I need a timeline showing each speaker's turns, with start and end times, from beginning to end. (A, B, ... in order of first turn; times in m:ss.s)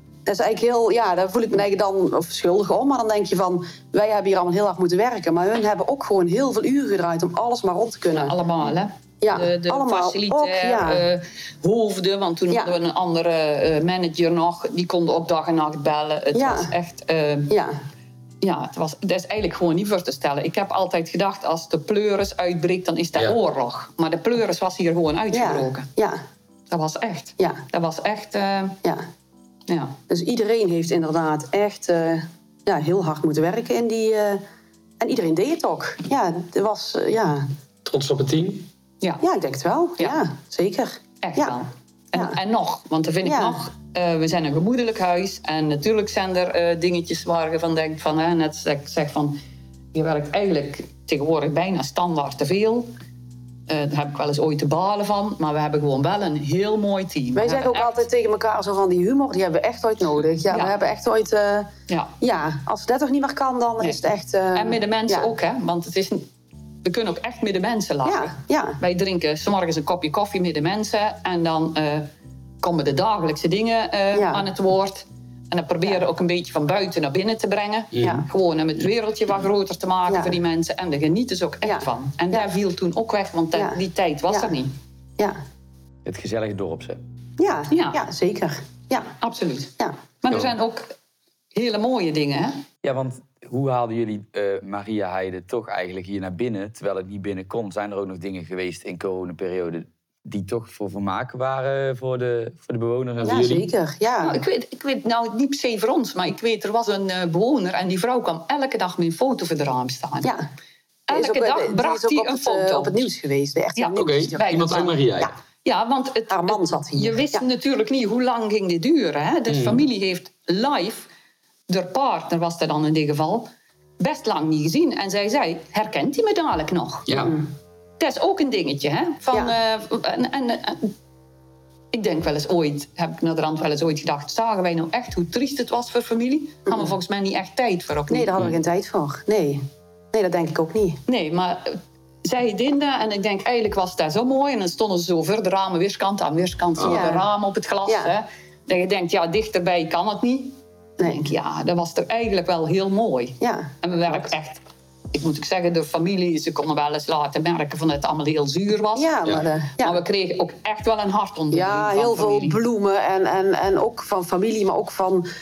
0:00.3-0:08.3 A
0:08.1-0:17.6 B
0:09.2-0:11.0 A
0:16.4-0:16.7 A
0:17.5-0:17.8 A
0:18.4-0:25.9 B
0:25.3-0:26.2 A
0:26.7-0:28.8 B
0:29.7-0:30.0 B
0:30.1-0:34.4 A
0:35.0-0:37.5 A
0:37.9-0:38.7 C
0:39.2-0:41.6 A
0:41.2-0:49.4 B
0:43.2-0:43.6 A
0:49.9-0:52.9 B
0:53.7-0:58.0 B
0:57.4-1:05.3 A
1:00.5-1:00.8 B
1:01.9-1:02.1 B
1:04.5-1:06.3 B
1:06.8-1:12.1 B
1:08.0-1:08.8 A
1:12.6-1:24.7 B
1:14.1-1:14.4 A
1:18.0-1:18.2 C
1:20.1-1:20.4 A
1:21.6-1:22.5 A
1:26.0-1:27.0 C
1:27.4-1:29.1 A
1:27.7-1:28.0 B
1:29.2-1:30.9 B
1:31.6-1:32.6 B
1:32.8-1:43.6 C
1:43.2-1:44.4 A
1:44.2-1:50.3 B
1:50.2-1:50.5 A
1:51.1-1:53.0 B
1:51.1-1:55.3 A
1:53.8-1:55.0 B
1:54.0-1:55.3 C
1:55.6-2:01.1 B
1:56.3-1:57.4 A
1:59.5-1:59.8 C
2:01.7-2:07.1 B
2:07.1-2:07.4 C
2:07.2-2:07.5 A
2:08.0-2:10.9 B
2:11.9-2:18.3 B
2:18.1-2:21.0 A
2:21.1-2:34.6 B
2:26.8-2:27.3 A
2:27.9-2:28.1 A
2:31.0-2:31.3 A
2:33.4-2:34.3 A
2:35.1-2:39.2 B
2:39.0-2:40.0 A
2:39.8-2:42.6 B
2:41.5-2:45.3 A